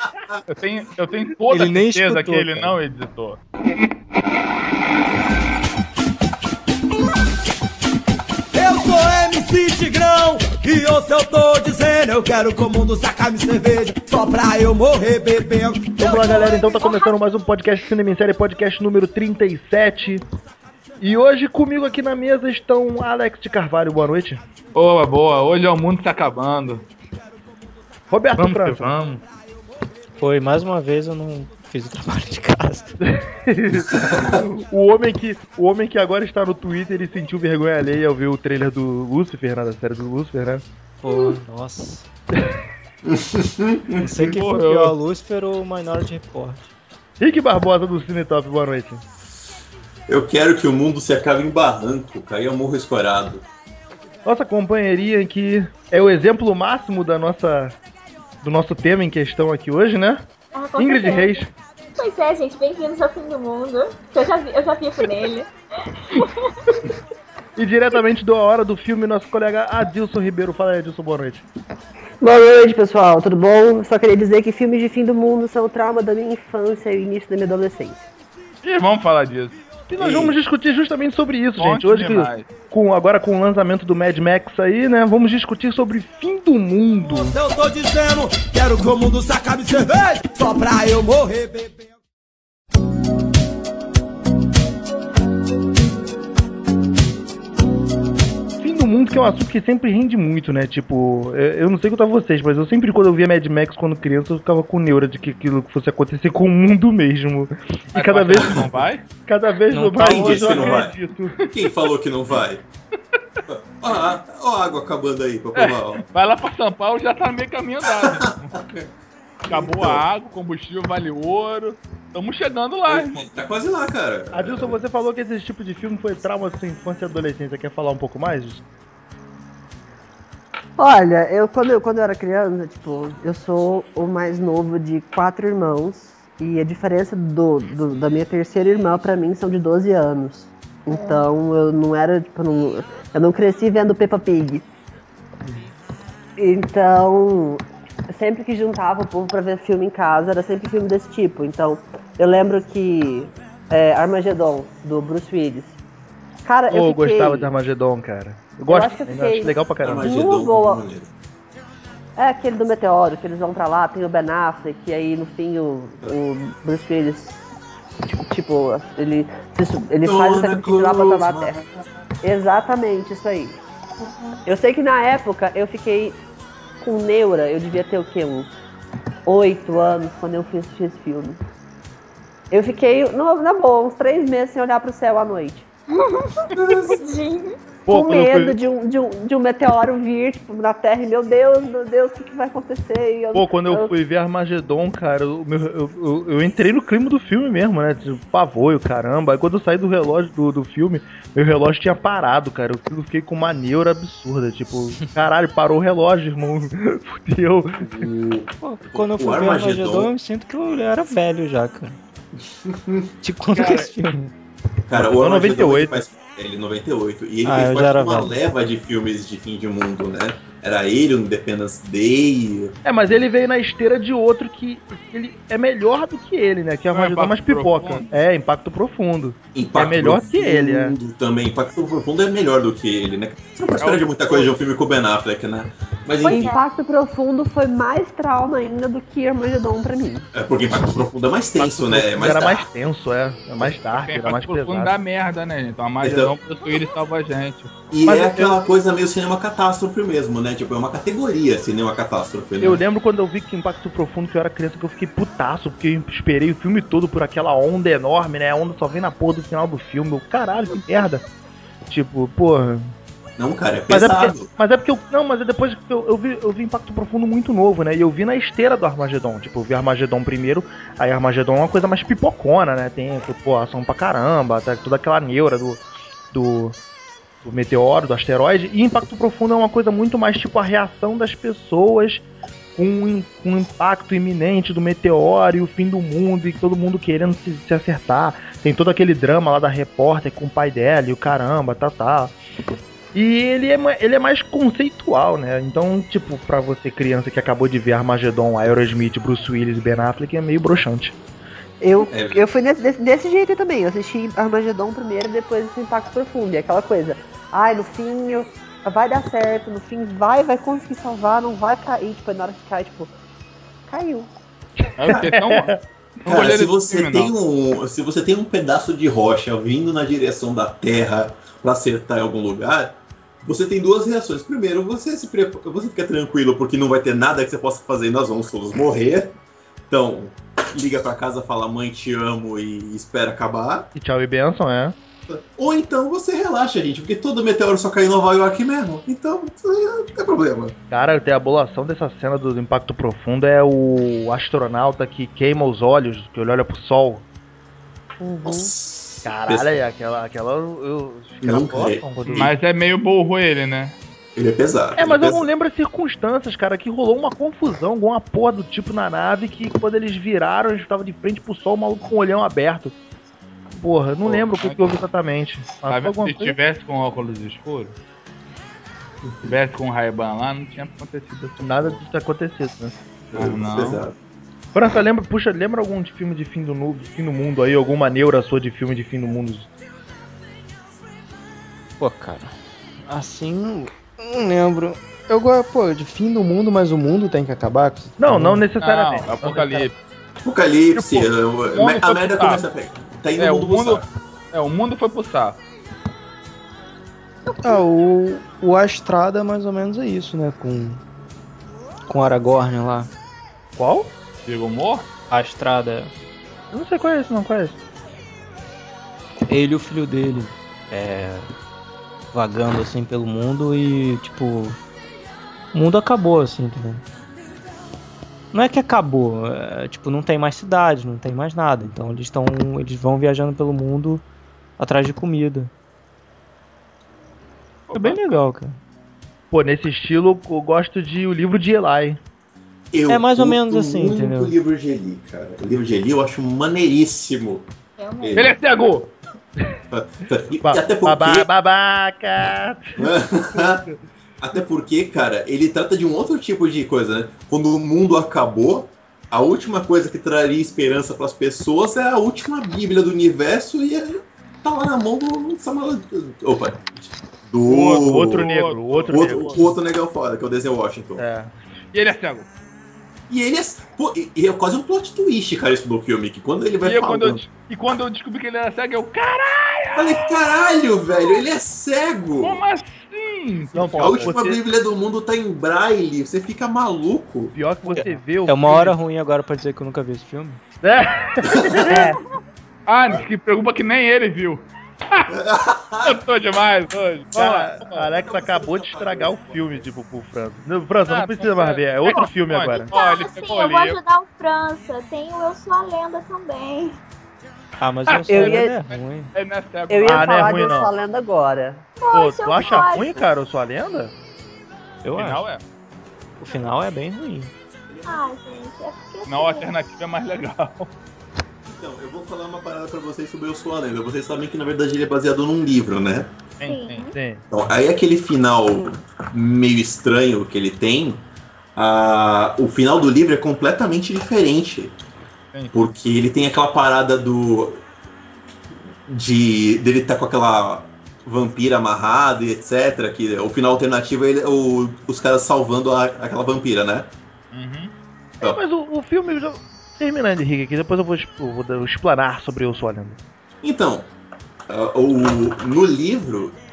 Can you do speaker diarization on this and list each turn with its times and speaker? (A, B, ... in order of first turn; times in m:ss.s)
0:00.5-0:03.4 A
0:01.5-0:02.8 B
0:08.5-0:16.4 C
0:16.0-0:20.2 D
0:16.2-0:17.2 E
0:21.0-0:24.4 D
0:24.7-0:26.8 A
0:28.1-0:29.1 D
0:28.4-0:29.2 A
0:30.2-0:32.9 B
0:33.0-0:40.6 D
0:33.9-0:34.4 F
0:41.0-0:42.0 B
0:43.0-0:44.3 F
0:44.0-0:46.7 B
0:44.3-0:44.9 A
0:47.2-0:49.0 D
0:50.1-0:53.4 F
0:54.2-0:57.8 D
0:58.4-1:00.2 D
1:00.5-1:01.4 E
1:00.8-1:01.5 D
1:02.0-1:06.9 E
1:07.6-1:11.4 D
1:12.2-1:18.0 G
1:18.6-1:20.3 A
1:19.9-1:27.4 D
1:21.6-1:22.5 A
1:27.0-1:31.9 C
1:38.6-1:48.7 D
1:47.9-1:49.0 A
1:48.3-1:48.6 F
1:49.2-1:51.4 D
1:49.7-1:50.8 B
1:50.0-1:52.6 F
1:53.5-1:56.0 F
1:55.5-1:58.6 A
1:57.8-1:58.9 F
1:59.4-2:03.3 A
1:59.5-2:00.0 F
2:02.9-2:04.8 F
2:04.3-2:08.6 D
2:10.8-2:24.6 G
2:20.9-2:21.3 E
2:26.4-2:35.8 G
2:36.4-2:37.5 G
2:36.7-2:40.1 D
2:38.7-2:40.8 G
2:39.8-2:41.1 F
2:42.2-2:47.4 G
2:48.1-2:51.6 G
2:50.0-2:51.7 F
2:52.2-2:53.6 G
2:54.4-2:56.2 G
2:56.8-2:58.5 G
2:59.2-3:01.4 G
3:02.5-3:05.6 G
3:05.9-3:07.5 E
3:06.5-3:07.0 F
3:07.9-3:08.6 D
3:07.9-3:13.9 G
3:13.3-3:28.1 D
3:27.8-3:30.1 F
3:28.6-3:32.0 B
3:32.6-3:33.1 F
3:33.2-3:34.3 B
3:33.6-3:33.8 D
3:33.6-3:33.9 A
3:34.9-3:42.7 F
3:34.9-3:36.0 D
3:37.4-3:38.4 B
3:42.8-3:51.0 D
3:46.9-3:48.1 A
3:49.5-3:56.5 F
3:53.8-3:54.5 A
3:56.2-3:56.6 E
3:56.3-4:00.3 G
4:00.3-4:02.7 F
4:01.6-4:04.9 D
4:03.9-4:07.7 A
4:06.0-4:06.3 F
4:06.6-4:07.0 E
4:07.9-4:12.8 F
4:08.0-4:08.6 D
4:12.6-4:21.2 D
4:21.8-4:22.9 D
4:23.4-4:24.5 F
4:23.9-4:36.8 D
4:37.4-4:42.2 D
4:42.8-4:52.3 D
4:53.1-5:01.2 D
5:01.8-5:13.1 G
5:02.0-5:02.4 F
5:13.9-5:14.3 G
5:14.8-5:15.8 D
5:15.0-5:17.3 A
5:16.2-5:29.4 F
5:29.9-5:33.9 F
5:34.0-5:35.0 D
5:35.3-5:40.8 F
5:40.9-5:47.2 D
5:48.2-5:48.7 G
5:48.4-5:49.7 F
5:49.2-5:52.5 D
5:51.4-5:52.5 F
5:52.3-5:54.0 A
5:54.4-5:55.5 F
5:55.0-6:02.9 D
6:03.7-6:06.6 D
6:04.2-6:05.0 A
6:05.8-6:07.9 A
6:09.2-6:09.5 F
6:09.4-6:12.0 A
6:11.6-6:12.9 D
6:13.3-6:14.2 F
6:13.3-6:14.0 A
6:14.7-6:19.7 D
6:22.0-6:22.5 B
6:23.1-6:28.6 B
6:28.2-6:29.9 D
6:28.8-6:29.9 A
6:30.4-6:34.1 F
6:31.0-6:32.6 A
6:33.4-6:35.6 A
6:37.6-6:41.0 B
6:42.1-6:43.1 B
6:43.8-6:44.1 D
6:44.4-6:45.1 A
6:45.3-6:46.1 B
6:46.7-6:47.8 D
6:49.4-6:51.5 B
6:52.3-6:54.8 B
6:55.7-6:57.0 B
6:58.5-7:04.2 B
7:04.8-7:05.7 B
7:07.9-7:08.2 A
7:07.9-7:08.8 B
7:09.5-7:12.2 D
7:12.9-7:17.7 F
7:13.1-7:14.5 B
7:18.0-7:18.6 E
7:18.2-7:18.5 F
7:18.3-7:19.1 A
7:19.9-7:21.5 F
7:20.6-7:23.9 D
7:23.0-7:23.9 F
7:24.4-7:38.5 F
7:37.6-7:39.7 D
7:38.3-7:39.6 A
7:39.1-7:41.2 F
7:41.2-7:41.5 D
7:41.9-7:42.5 A
7:43.3-7:47.4 F
7:46.8-7:50.4 A
7:50.0-7:52.6 F
7:52.4-7:54.4 A
7:53.7-7:54.6 D
7:54.0-7:57.5 F
7:57.5-7:58.9 D
7:57.9-7:58.2 A
7:58.0-8:00.6 B
8:00.8-8:02.2 D
8:01.5-8:01.9 F
8:02.9-8:05.3 A
8:05.3-8:06.2 F
8:06.0-8:08.0 A
8:07.3-8:12.9 D
8:08.0-8:09.9 F
8:11.1-8:14.0 A
8:12.9-8:17.0 E
8:17.8-8:19.3 B
8:18.1-8:20.9 A
8:18.3-8:18.7 G
8:19.9-8:21.9 G
8:20.0-8:20.9 D
8:22.0-8:23.1 E
8:22.1-8:24.1 D
8:25.0-8:25.4 B
8:25.2-8:25.6 A
8:26.4-8:27.5 B
8:27.9-8:28.2 F
8:28.0-8:29.7 E
8:29.3-8:30.9 A
8:31.6-8:36.3 F
8:36.6-8:37.1 A
8:36.6-8:37.2 E
8:37.1-8:37.4 D
8:37.5-8:41.2 F
8:41.8-8:45.0 F
8:45.5-8:45.9 A
8:45.7-8:47.8 F
8:49.1-8:57.1 F
8:57.5-8:57.9 A
8:58.4-9:03.2 D
9:03.6-9:04.1 F
9:04.7-9:06.6 F